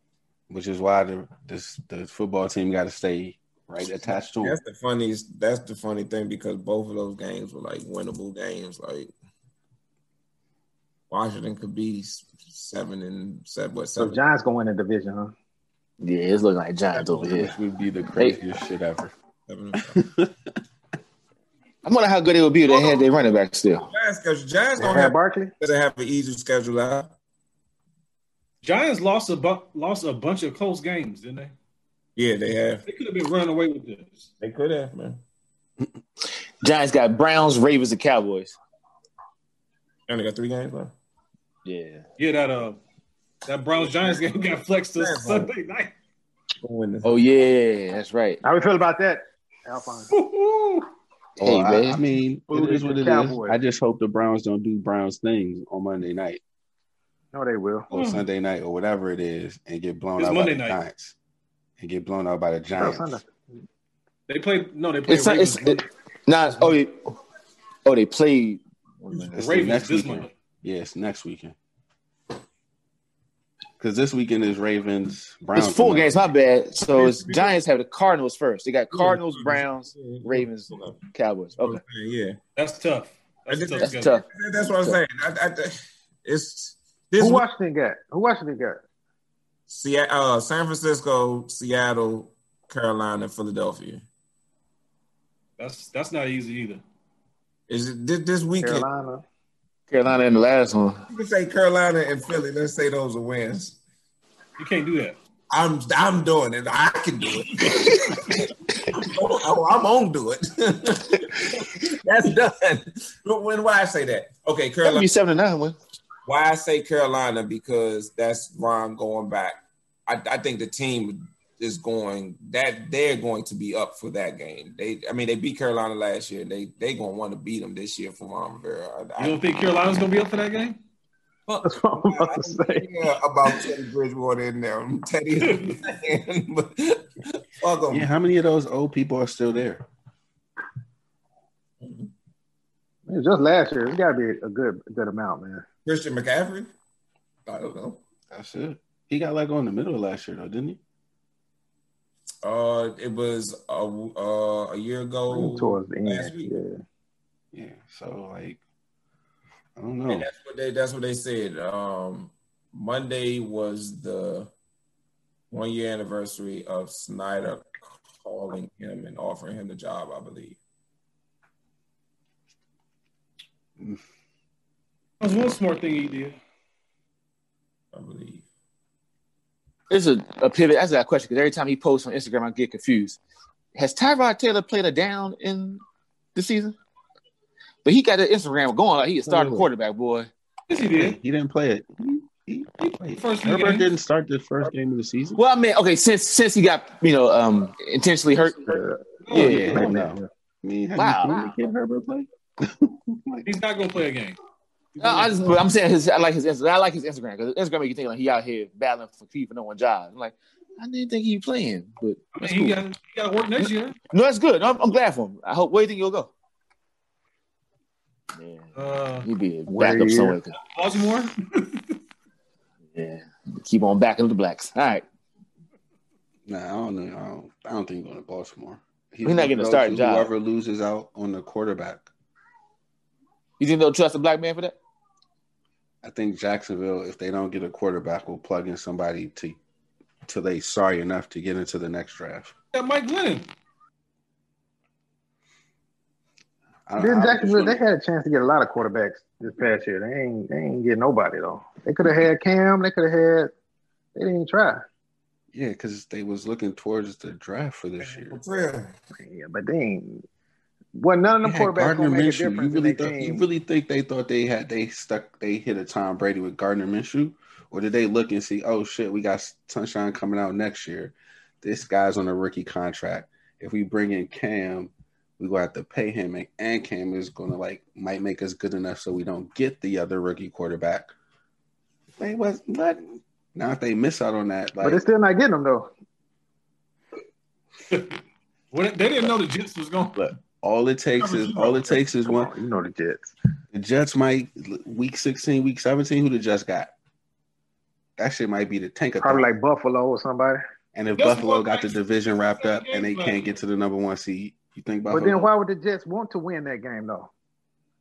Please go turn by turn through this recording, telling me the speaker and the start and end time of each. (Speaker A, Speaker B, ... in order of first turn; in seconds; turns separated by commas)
Speaker A: 0.5-4.6, Speaker B: 4.1-9.1, Speaker B: 11.1-14.2, Speaker C: 14.0-15.3, Speaker D: 16.0-17.6, Speaker A: 17.0-19.1, Speaker B: 19.5-20.0, Speaker A: 19.8-20.4, Speaker D: 21.9-23.9, Speaker B: 22.7-23.1, Speaker B: 23.8-27.1, Speaker C: 24.8-25.5, Speaker E: 28.6-31.5, Speaker B: 32.2-32.8, Speaker E: 32.9-34.3, Speaker B: 34.4-35.2, Speaker D: 36.6-38.6, Speaker B: 40.1-40.9, Speaker D: 41.6-42.1, Speaker E: 42.2-42.8, Speaker E: 43.5-45.9, Speaker B: 45.0-45.5, Speaker B: 46.6-47.1, Speaker D: 47.0-48.4, Speaker C: 48.4-50.1, Speaker E: 50.1-50.9, Speaker A: 51.4-56.4, Speaker D: 51.4-52.0, Speaker C: 52.5-53.6, Speaker C: 57.3-57.9, Speaker A: 57.9-61.1, Speaker E: 57.9-58.2, Speaker E: 60.2-60.8, Speaker A: 61.8-63.2, Speaker C: 62.8-63.3, Speaker E: 64.3-65.9, Speaker D: 65.1-67.0, Speaker D: 67.8-69.5, Speaker A: 69.3-71.5, Speaker E: 69.4-70.3, Speaker A: 73.8-76.2, Speaker D: 75.5-81.8, Speaker B: 76.9-77.6, Speaker B: 78.9-81.0, Speaker B: 81.6-82.4, Speaker E: 82.6-84.2, Speaker B: 83.5-87.5, Speaker D: 83.8-84.2, Speaker C: 87.2-88.8, Speaker B: 89.7-94.0, Speaker E: 95.6-96.8, Speaker B: 97.7-98.8, Speaker C: 98.6-99.2, Speaker D: 99.9-101.0, Speaker B: 101.1-103.8, Speaker E: 104.6-105.2, Speaker B: 105.5-115.1, Speaker D: 114.8-115.8, Speaker B: 116.3-129.4, Speaker E: 129.2-130.8, Speaker B: 131.5-138.1, Speaker C: 131.6-132.9, Speaker E: 135.4-135.7, Speaker A: 137.9-139.8, Speaker B: 141.8-142.1, Speaker C: 143.1-145.7, Speaker B: 145.9-146.7, Speaker B: 147.5-148.0, Speaker A: 148.3-150.8, Speaker B: 152.4-156.5, Speaker C: 155.3-156.8, Speaker A: 157.5-158.6, Speaker A: 159.8-160.3, Speaker B: 160.1-164.5, Speaker B: 165.5-170.6, Speaker E: 175.2-176.4, Speaker B: 177.9-178.4, Speaker D: 179.9-183.2, Speaker D: 183.8-185.8, Speaker D: 186.3-186.8, Speaker D: 187.8-190.3, Speaker C: 189.3-189.6, Speaker E: 190.7-191.2, Speaker A: 190.8-195.4, Speaker E: 193.2-193.9, Speaker D: 195.4-198.8, Speaker C: 198.7-200.3, Speaker E: 199.2-199.6, Speaker A: 199.3-203.5, Speaker D: 199.3-199.9, Speaker D: 201.0-201.6, Speaker E: 203.4-204.4, Speaker E: 205.0-205.4, Speaker D: 205.0-212.8, Speaker E: 212.4-214.0, Speaker D: 213.6-216.3, Speaker D: 218.4-218.7, Speaker E: 218.8-219.3, Speaker D: 219.2-220.6, Speaker C: 219.7-220.4, Speaker E: 220.7-221.8, Speaker D: 222.9-225.0, Speaker A: 226.5-232.1, Speaker D: 229.2-230.3, Speaker D: 233.6-234.8, Speaker A: 236.0-239.6, Speaker A: 240.3-242.5, Speaker E: 242.7-243.5, Speaker A: 246.9-247.8, Speaker C: 247.0-253.5, Speaker C: 254.2-254.8, Speaker A: 255.5-258.4, Speaker B: 258.0-258.9, Speaker C: 259.2-260.2, Speaker C: 260.9-263.4, Speaker A: 261.4-281.1, Speaker A: 282.2-285.0, Speaker C: 284.8-285.9, Speaker E: 288.7-290.4, Speaker A: 290.6-292.5, Speaker E: 291.2-292.0, Speaker C: 292.3-293.3, Speaker A: 293.7-296.9, Speaker A: 298.2-299.5, Speaker C: 299.2-300.6, Speaker A: 300.9-305.5, Speaker E: 301.1-303.6, Speaker C: 305.1-307.3